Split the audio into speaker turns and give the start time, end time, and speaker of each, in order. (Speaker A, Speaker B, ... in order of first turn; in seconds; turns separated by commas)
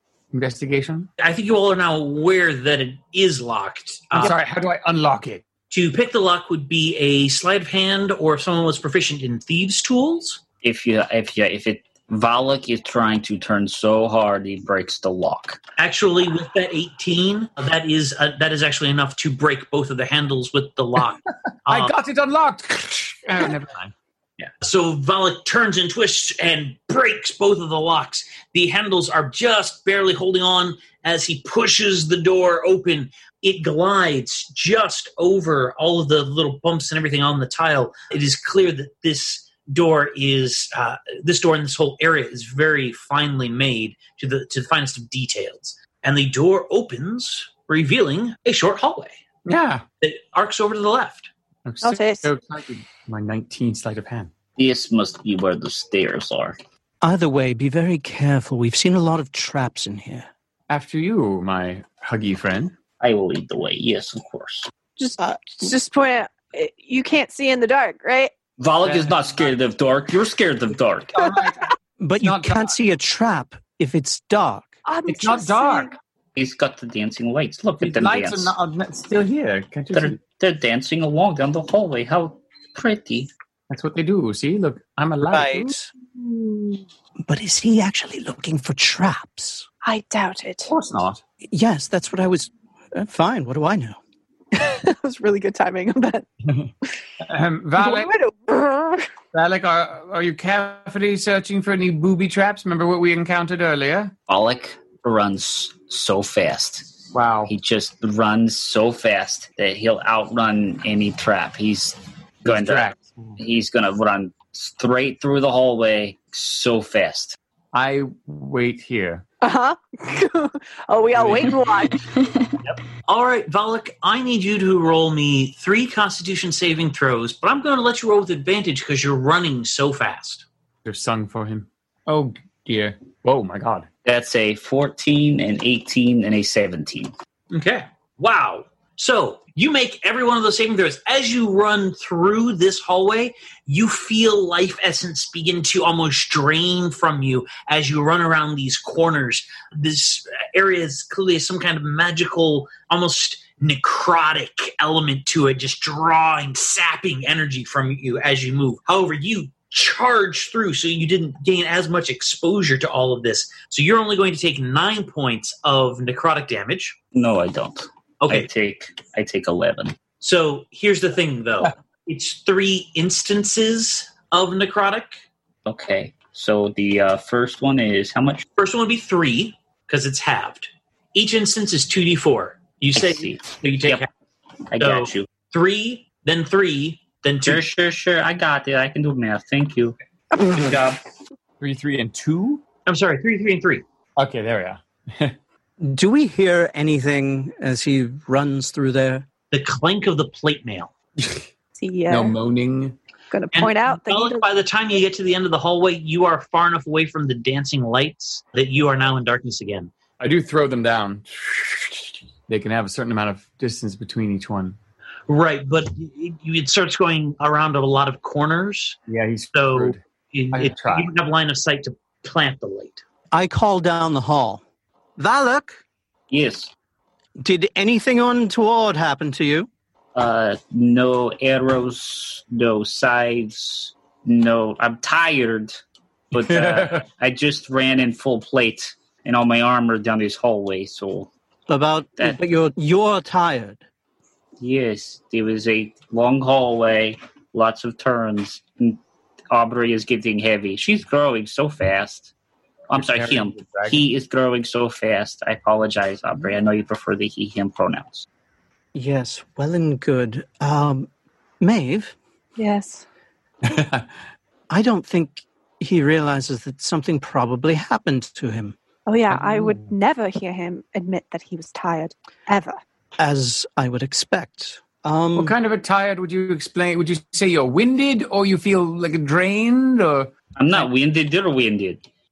Speaker A: 0.3-1.1, Speaker B: 1.2-4.3, Speaker A: 4.1-5.4, Speaker B: 5.7-10.4, Speaker C: 10.6-15.6, Speaker B: 15.8-21.9, Speaker A: 21.7-24.5, Speaker B: 24.6-49.2, Speaker A: 49.5-49.8, Speaker B: 50.0-51.3, Speaker A: 51.6-54.3, Speaker D: 51.8-52.3, Speaker C: 54.6-56.6, Speaker E: 57.0-60.3, Speaker A: 60.7-62.8, Speaker C: 63.0-64.7, Speaker D: 65.0-68.3, Speaker E: 65.2-65.7, Speaker C: 68.6-71.2, Speaker A: 68.8-69.6, Speaker A: 71.1-72.8, Speaker E: 72.0-74.8, Speaker D: 74.9-75.9, Speaker A: 75.1-75.9, Speaker C: 76.4-78.5, Speaker A: 77.8-80.2, Speaker C: 79.9-83.3, Speaker A: 83.7-85.7, Speaker E: 85.3-85.9, Speaker D: 86.4-86.8, Speaker E: 87.3-89.7, Speaker D: 89.8-90.7, Speaker A: 90.7-91.2, Speaker E: 91.5-94.0, Speaker D: 94.6-96.3, Speaker A: 96.5-96.7, Speaker A: 97.2-98.1, Speaker D: 97.8-99.1, Speaker A: 99.3-104.1, Speaker C: 104.3-117.4, Speaker A: 107.1-107.5, Speaker A: 112.5-113.4, Speaker A: 117.7-119.2, Speaker D: 119.4-122.2, Speaker A: 121.1-121.7, Speaker B: 122.7-130.5, Speaker A: 130.8-133.9, Speaker C: 134.1-137.1, Speaker B: 137.5-167.0, Speaker C: 167.1-170.0, Speaker B: 168.2-168.5, Speaker B: 170.2-175.2, Speaker C: 175.7-178.4, Speaker B: 178.6-184.1, Speaker C: 183.0-184.0, Speaker C: 184.7-185.3, Speaker B: 184.8-187.7, Speaker C: 187.4-191.0, Speaker A: 191.6-192.6, Speaker B: 192.9-193.8, Speaker A: 194.2-195.3, Speaker E: 195.8-199.3, Speaker B: 199.5-200.9, Speaker A: 201.2-201.5, Speaker D: 201.8-202.4, Speaker A: 202.1-203.0, Speaker D: 203.3-204.4, Speaker B: 203.5-209.9, Speaker A: 210.2-214.8, Speaker B: 215.3-219.0, Speaker A: 219.1-220.0, Speaker B: 219.5-223.0, Speaker A: 220.5-221.1, Speaker E: 223.3-224.6, Speaker E: 225.2-225.8, Speaker C: 226.3-226.7, Speaker E: 227.4-229.7, Speaker C: 230.2-235.8, Speaker C: 236.3-241.3, Speaker A: 236.3-237.0, Speaker E: 241.7-243.8, Speaker C: 244.6-252.3, Speaker C: 252.9-258.3, Speaker A: 252.9-254.1, Speaker E: 258.9-261.1, Speaker E: 261.6-262.1, Speaker D: 262.6-263.1, Speaker A: 263.6-264.1, Speaker E: 264.7-268.8, Speaker D: 269.1-272.8, Speaker A: 269.3-269.8, Speaker E: 273.2-275.5, Speaker A: 275.4-280.9, Speaker C: 280.6-282.0